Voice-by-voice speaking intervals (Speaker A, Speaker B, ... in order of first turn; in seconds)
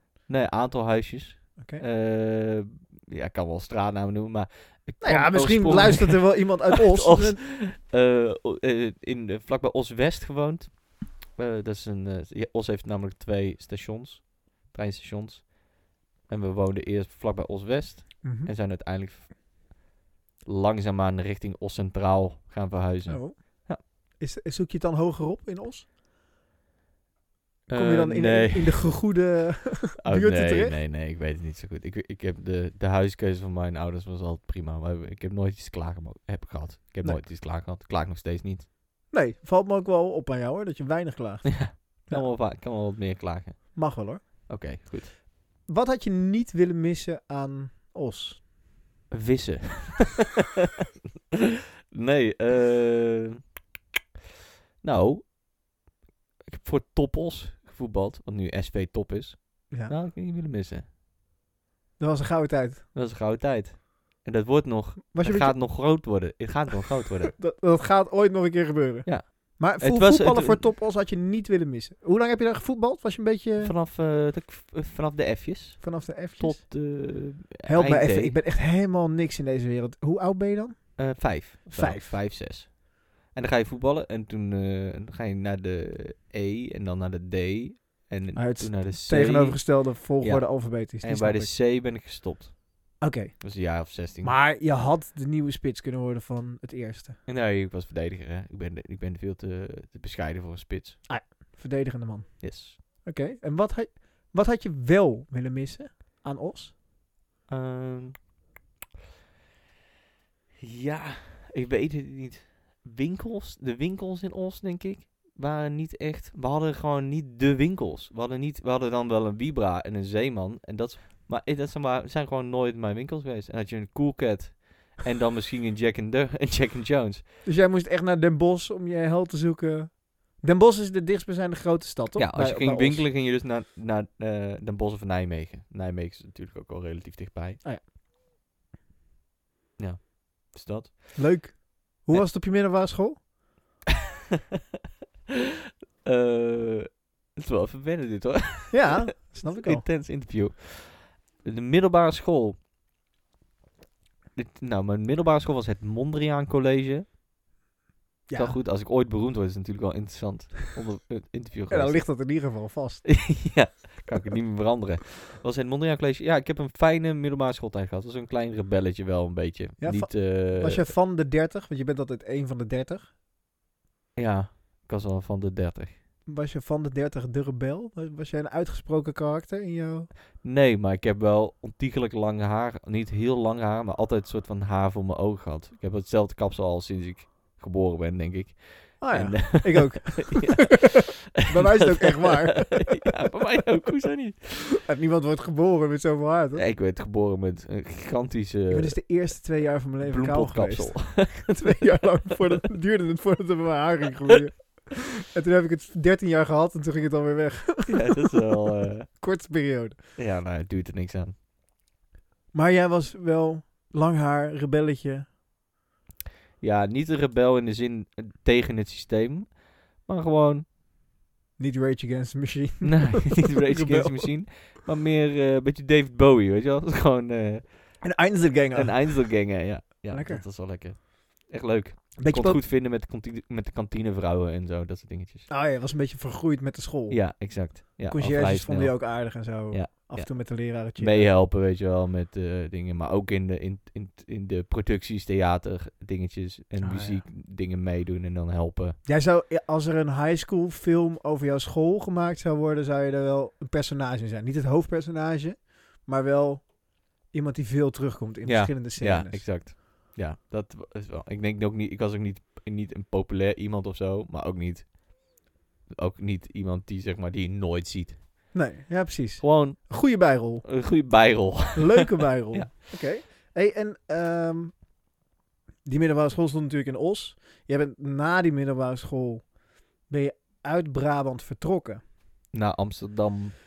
Speaker A: 0.3-19.3, 20.4-23.8, 27.7-29.1, 30.0-38.7, 41.5-45.2, 49.1-50.3, 51.9-53.4, 54.8-55.4, 56.5-60.8, 62.9-67.4, 69.0-70.7, 73.6-78.4, 81.0-94.4, 97.2-101.0, 102.4-102.8, 107.5-108.3, 110.6-127.2, 132.1-137.6, 139.8-141.4, 146.0-152.6, 154.3-157.1, 158.3-162.1, 163.0-170.9, 174.2-176.0, 180.4-194.4, 196.5-202.1, 207.9-209.2, 210.2-211.3, 216.6-220.7, 222.8-228.0, 228.7-235.5, 237.1-249.0, 258.4-268.2, 269.4-272.7, 282.5-283.5
Speaker B: 1.6-1.8, 5.0-7.4, 18.2-18.5, 23.1-25.9, 27.7-30.8, 39.1-42.3, 43.7-44.5, 45.6-48.4, 59.7-59.9, 62.0-62.9, 65.1-66.0, 67.4-73.7, 75.8-77.0, 77.6-82.1, 88.3-91.5, 93.0-97.2, 101.1-106.7, 127.4-133.1, 141.2-143.2, 148.7-149.8, 158.3-158.6, 161.7-163.7, 169.8-173.1, 176.2-180.1, 189.0-190.9, 191.4-193.1, 194.8-196.6, 198.7-207.9, 209.1-210.0, 212.5-215.3, 221.6-224.3, 228.0-230.4, 232.2-232.6, 235.5-241.3, 246.8-247.2, 249.0-259.5, 268.5-271.1, 271.7-275.0, 275.8-282.0